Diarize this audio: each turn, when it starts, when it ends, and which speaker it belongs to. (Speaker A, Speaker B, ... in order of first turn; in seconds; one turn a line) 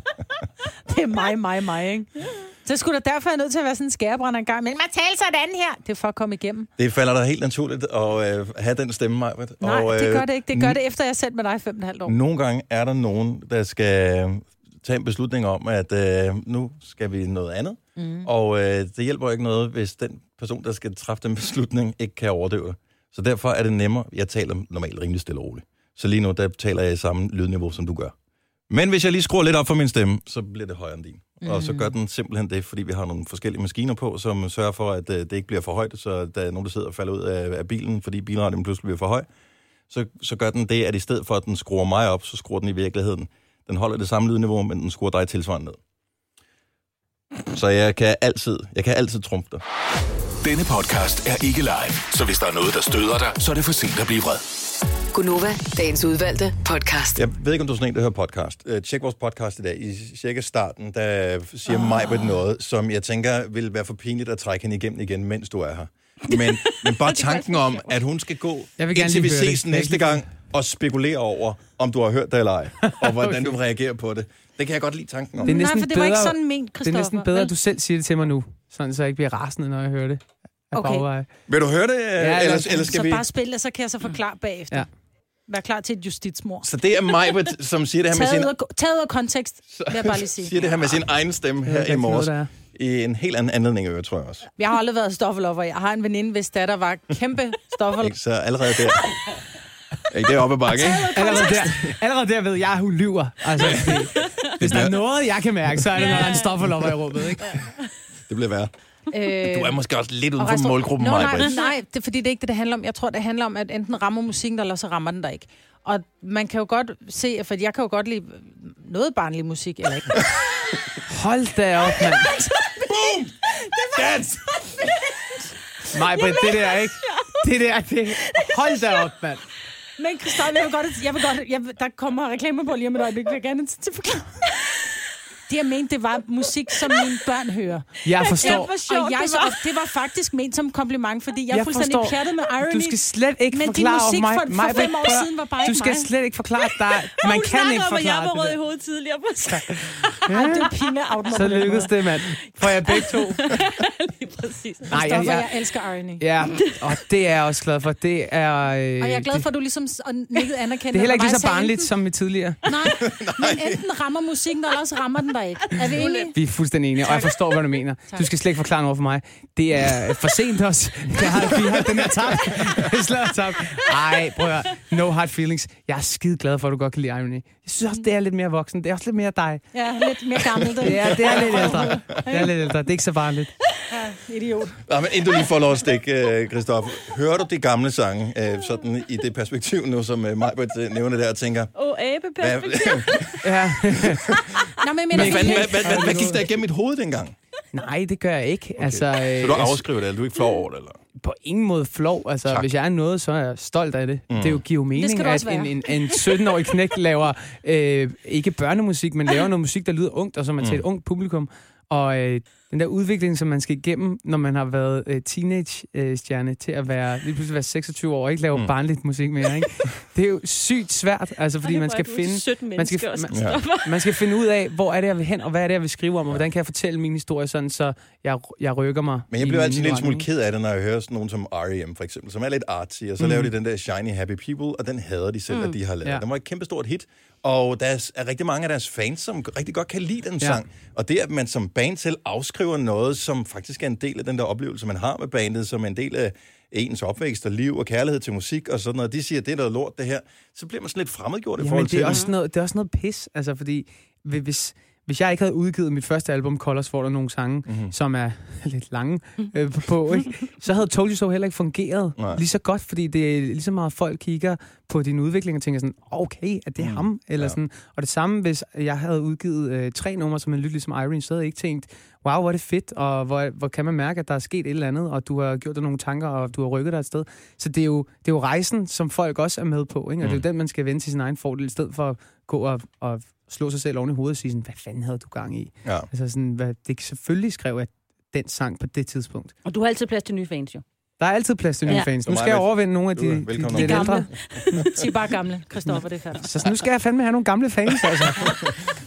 Speaker A: 0.9-6.7
Speaker B: 6.8-10.8
Speaker A: 9.6-12.1
Speaker B: 12.1-28.1
Speaker A: 17.9-18.3
Speaker B: 28.7-39.3
Speaker A: 31.4-31.9
Speaker B: 39.9-45.8
Speaker B: 47.5-49.6
Speaker C: 50.4-54.4
Speaker D: 55.1-57.2
Speaker B: 57.1-75.6
Speaker E: 66.7-67.9
Speaker F: 68.8-70.3
Speaker F: 72.8-73.5
Speaker A: 75.4-77.5
Speaker F: 75.4-80.2
Speaker A: 80.7-81.1
Speaker F: 80.7-81.3
Speaker B: 81.5-83.2
Speaker F: 82.2-82.7
Speaker A: 82.6-84.9
Speaker A: 85.5-86.7
Speaker B: 86.6-88.5
Speaker A: 88.1-90.6
Speaker B: 89.7-94.5
Speaker F: 91.6-92.5
Speaker A: 94.6-98.1
Speaker B: 98.0-99.2
Speaker B: 100.1-101.1
Speaker A: 100.7-101.7
Speaker F: 101.1-107.5
Speaker E: 101.2-101.6
Speaker B: 103.6-105.0
Speaker E: 104.2-104.5
Speaker E: 105.9-106.7
Speaker B: 107.1-107.4
Speaker E: 107.5-107.8
Speaker B: 108.3-108.7
Speaker A: 109.1-109.8
Speaker B: 109.4-111.5
Speaker A: 110.4-120.2
Speaker F: 121.1-122.4
Speaker A: 122.2-122.6
Speaker B: 122.9-123.3
Speaker E: 123.7-124.1
Speaker B: 124.0-124.3
Speaker F: 125.9-129.4
Speaker E: 126.1-127.4
Speaker E: 128.2-129.0
Speaker A: 130.0-134.7
Speaker A: 135.5-146.1
Speaker F: 138.1-138.7
Speaker E: 138.1-139.6
Speaker F: 141.5-148.6
Speaker E: 146.8-150.2
Speaker F: 150.3-150.7
Speaker A: 150.3-151.9
Speaker F: 151.3-153.5
Speaker E: 152.4-155.4
Speaker F: 154.9-155.5
Speaker A: 154.9-156.3
Speaker F: 156.2-159.4
Speaker E: 156.5-156.9
Speaker A: 159.0-161.9
Speaker F: 160.9-162.6
Speaker A: 162.7-166.4
Speaker B: 163.0-163.8
Speaker E: 166.0-166.3
Speaker F: 166.3-179.6
Speaker A: 167.0-168.3
Speaker B: 171.4-172.2
Speaker A: 179.7-182.6
Speaker F: 180.7-183.5
Speaker B: 181.5-182.2
Speaker A: 183.9-184.8
Speaker B: 184.9-191.7
Speaker E: 191.7-193.6
Speaker B: 192.4-194.4
Speaker F: 193.4-194.3
Speaker E: 194.2-194.7
Speaker A: 194.8-196.3
Speaker F: 195.1-196.4
Speaker B: 195.1-197.3
Speaker F: 197.7-199.8
Speaker B: 198.8-201.0
Speaker F: 201.2-230.3
Speaker B: 204.3-204.6
Speaker A: 204.9-205.8
Speaker E: 221.6-224.1
Speaker B: 223.3-223.7
Speaker B: 229.3-252.3
Speaker F: 233.2-233.5
Speaker F: 251.6-289.5
Speaker E: 252.1-252.3
Speaker B: 257.6-257.9
Speaker B: 262.2-262.4
Speaker B: 266.8-267.6
Speaker B: 285.8-286.1
Speaker E: 289.6-290.8
Speaker F: 291.2-295.0
Speaker E: 291.9-292.1
Speaker B: 291.9-294.6
Speaker A: 293.7-296.5
Speaker E: 293.9-294.8
Speaker F: 296.4-298.6
Speaker B: 298.1-298.7